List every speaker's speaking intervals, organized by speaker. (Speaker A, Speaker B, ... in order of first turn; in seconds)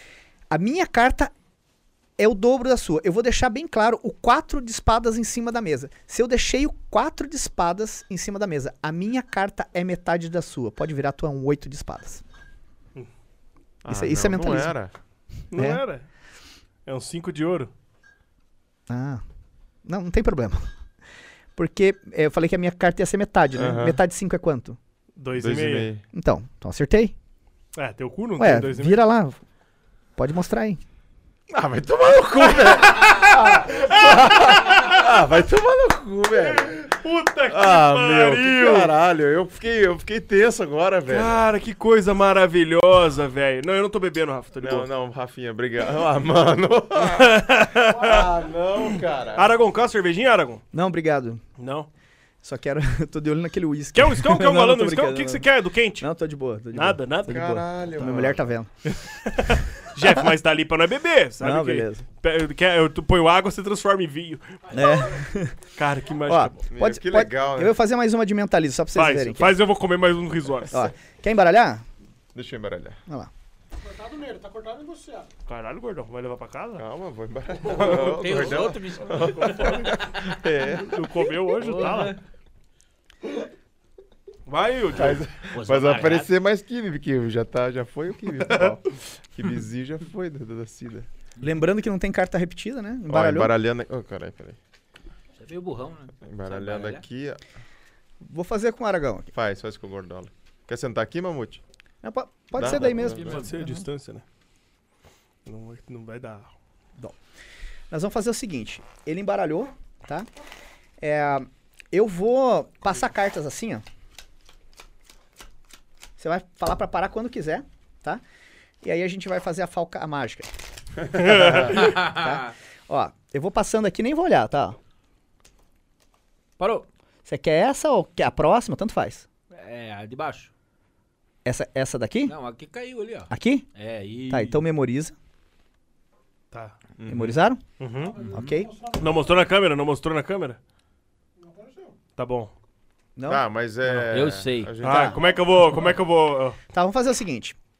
Speaker A: 0.5-1.3, 2.2-12.2, 13.9-14.8, 15.5-15.8, 18.9-19.2, 19.8-20.7, 21.6-24.8, 26.1-27.1, 28.4-29.4, 30.2-30.8, 50.7-51.4, 52.4-55.5, 56.0-58.7, 61.4-62.0, 64.7-65.5, 66.3-69.6, 70.7-71.8, 91.4-93.5, 98.2-99.3, 102.0-103.9, 107.9-110.3, 111.0-113.8, 116.2-118.2, 118.8-120.5, 121.1-124.8, 127.2-129.3, 131.4-132.3, 133.3-133.7, 134.3-135.1, 137.1-137.6, 138.3-138.7, 143.2-143.9, 144.8-145.2, 146.7-147.6
Speaker B: 13.8-14.9, 23.6-24.0, 25.3-26.0, 31.5-36.9, 37.5-41.4, 44.6-47.4, 48.0-49.5, 57.3-58.5, 66.7-67.7, 72.3-73.0, 76.8-81.2, 84.9-91.1, 93.1-94.6, 96.2-97.4, 99.3-101.6, 102.5-103.4, 121.2-121.7, 137.0-137.3, 143.3-145.2
Speaker C: 15.5-16.1, 16.8-17.7, 25.2-25.9, 27.8-29.0, 32.5-35.0, 36.4-38.9, 41.1-44.9, 47.0-48.3, 49.3-50.6, 51.6-51.9, 53.9-56.1, 56.7-57.6, 58.9-65.1, 65.8-66.6, 68.9-70.9, 75.5-76.8, 77.7-78.4, 80.8-82.1, 84.5-85.3, 88.5-88.7, 103.0-104.2, 105.4-106.5, 121.2-121.7, 136.5-136.8, 137.8-138.3, 139.0-140.6, 142.2-142.5, 144.8-146.6
Speaker D: 47.9-48.5, 73.8-75.3, 137.9-139.5, 141.4-142.0, 145.2-145.5
Speaker E: 77.6-79.9, 81.6-82.2, 85.5-86.3, 95.4-97.0, 102.6-103.5, 121.7-122.5, 126.6-126.9, 129.5-130.5, 132.2-134.6, 144.1-144.7